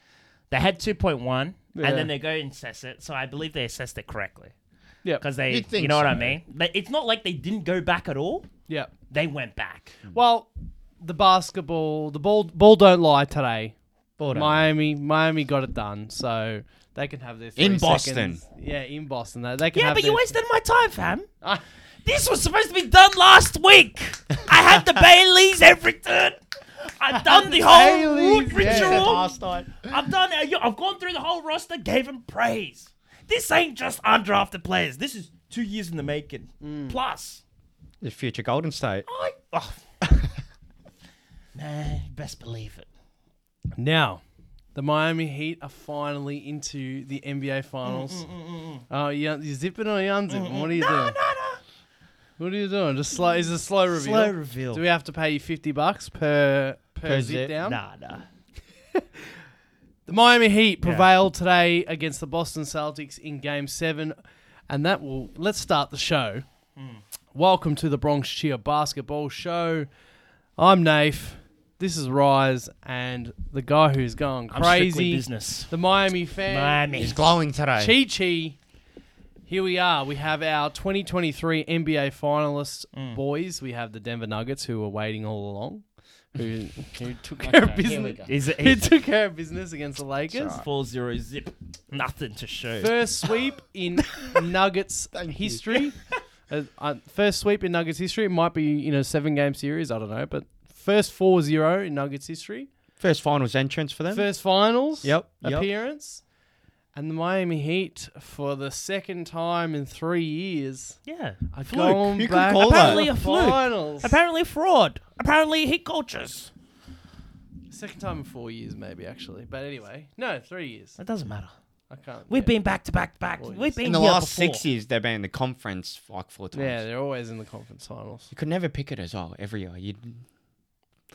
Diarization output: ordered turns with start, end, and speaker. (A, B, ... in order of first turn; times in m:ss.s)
0:00.5-0:04.5 A
0:01.7-0:02.1 B
0:05.2-0:08.5 A
0:05.5-0:06.4 C
0:09.1-0:10.0 A
0:10.1-0:13.8 B
0:14.2-0:14.6 C
0:14.3-0:20.4 B
0:17.6-0:18.4 C
0:19.7-0:21.3 A
0:22.0-0:37.4 A
0:27.1-0:29.3 B
0:27.6-0:29.9 C
0:36.6-0:37.0 B
0:38.0-0:39.1 C
0:39.1-0:39.8 A
0:40.1-0:40.3 C
0:41.6-0:42.9 A
0:43.8-0:44.2 B
0:44.8-0:48.3 B
0:47.8-0:48.8 A
0:48.9-0:51.2 B
0:50.3-0:51.6 A
0:52.4-0:57.8 B
0:53.9-0:54.8 A
0:57.0-0:57.5 C
0:57.6-0:58.3 A
1:00.1-1:04.2 B
1:00.8-1:01.1 A
1:04.7-1:06.5 B
1:06.8-1:07.0 A
1:07.3-1:09.9 B
1:10.6-1:16.9 B
1:14.5-1:15.7 A
1:16.4-1:17.2 A
1:17.0-1:18.0 C
1:17.8-1:18.6 B
1:19.5-1:30.6 B
1:22.9-1:23.2 A
1:27.4-1:28.3 C
1:28.3-1:28.9 A
1:30.3-1:32.9 A
1:32.8-1:42.7 B
1:35.1-1:36.0 C
1:43.0-1:44.4 C
1:44.1-1:46.2 B
1:45.0-1:45.7 C
1:46.9-1:54.2 B
1:51.1-1:51.4 A
1:51.6-1:53.0 C
1:52.6-1:56.5 A
1:57.7-2:01.0 B
2:01.0-2:01.6 A
2:01.9-2:02.6 B
2:02.3-2:04.6 A
2:03.4-2:03.8 B
2:03.8-2:06.8 C
2:06.5-2:08.3 B
2:08.3-2:10.2 C